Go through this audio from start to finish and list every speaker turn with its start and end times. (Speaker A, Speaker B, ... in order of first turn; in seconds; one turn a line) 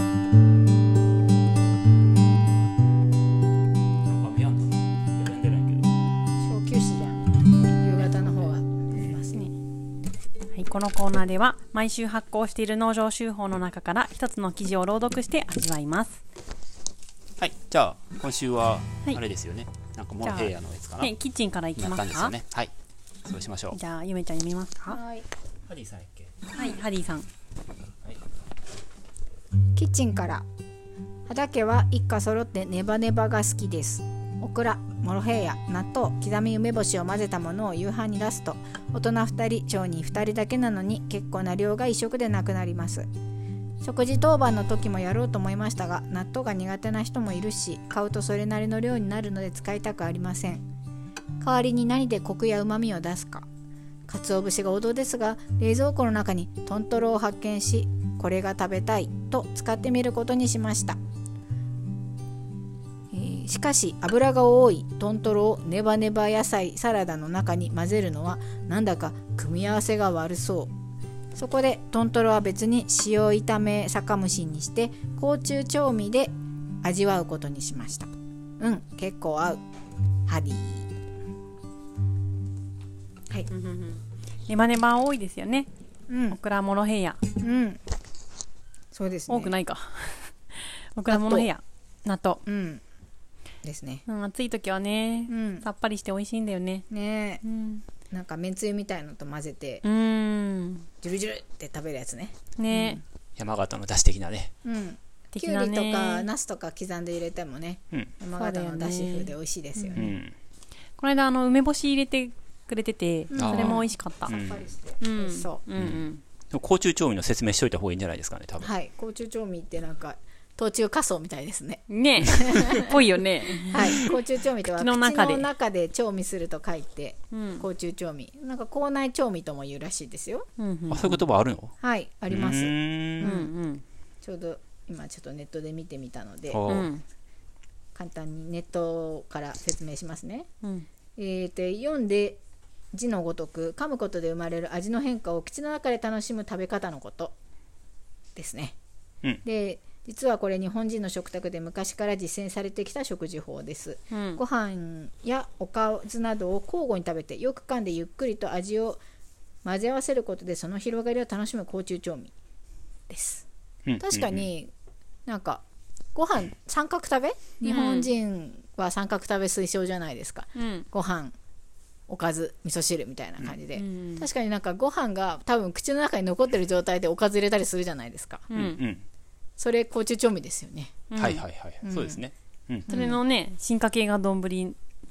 Speaker A: 4.0-5.9
Speaker B: 6.4-9.5
Speaker C: 10.5-16.2
Speaker A: 17.4-21.1
Speaker C: 20.2-22.3
Speaker A: 21.8-22.7
Speaker A: 23.2-23.8
Speaker C: 23.7-25.0
Speaker B: 24.9-25.3
Speaker A: 25.7-26.3
Speaker C: 26.5-27.3
Speaker B: 29.8-30.4
Speaker B: 31.3-43.1
Speaker B: 43.8-50.6
Speaker B: 51.4-53.5
Speaker B: 54.1-61.0
Speaker B: 63.1-70.7
Speaker B: 71.3-79.6
Speaker B: 80.3-80.9
Speaker C: 83.5-85.7
Speaker B: 86.1-86.4
Speaker C: 86.3-87.2
Speaker B: 87.4-87.8
Speaker B: 88.9-89.6
Speaker C: 89.3-92.4
Speaker B: 91.1-91.5
Speaker B: 92.5-92.8
Speaker B: 93.6-94.0
Speaker C: 94.0-96.8
Speaker B: 95.3-95.7
Speaker B: 96.9-97.4
Speaker C: 97.4-97.8
Speaker B: 98.1-99.8
Speaker C: 99.8-100.9
Speaker B: 101.0-103.0
Speaker C: 102.6-103.0
Speaker A: 103.4-104.5
Speaker B: 104.6-110.0
Speaker C: 105.3-106.3
Speaker C: 108.4-110.2
Speaker A: 110.0-110.3
Speaker C: 111.0-114.3
Speaker B: 113.3-115.6
Speaker A: 113.3-114.7
Speaker C: 115.0-116.2
Speaker A: 115.8-118.7
Speaker B: 118.6-122.9
Speaker C: 121.9-125.5
Speaker B: 123.6-130.4
Speaker C: 127.3-127.6
Speaker C: 130.6-131.2
Speaker A: 130.9-131.8
Speaker B: 131.8-133.5
Speaker A: 132.3-133.3
Speaker C: 133.2-133.8
Speaker B: 134.2-136.6
Speaker A: 136.5-136.9
Speaker C: 136.7-137.0
Speaker B: 137.9-140.5
Speaker B: 141.2-142.4
Speaker B: 142.9-147.3
Speaker B: 148.3-148.7
Speaker B: 149.4-159.0
Speaker C: 154.1-154.4
Speaker B: 159.6-162.3
Speaker B: 163.1-163.4
Speaker A: 163.8-164.4
Speaker B: 164.0-164.7
Speaker B: 165.3-165.6
Speaker B: 166.1-171.3
Speaker C: 167.6-168.1
Speaker C: 170.6-170.8
Speaker B: 172.1-178.5
Speaker C: 173.7-174.3
Speaker C: 178.5-178.8
Speaker A: 178.5-179.0
Speaker B: 179.6-181.1
Speaker C: 181.1-181.4
Speaker A: 181.2-182.9
Speaker B: 181.8-182.2
Speaker C: 182.9-184.8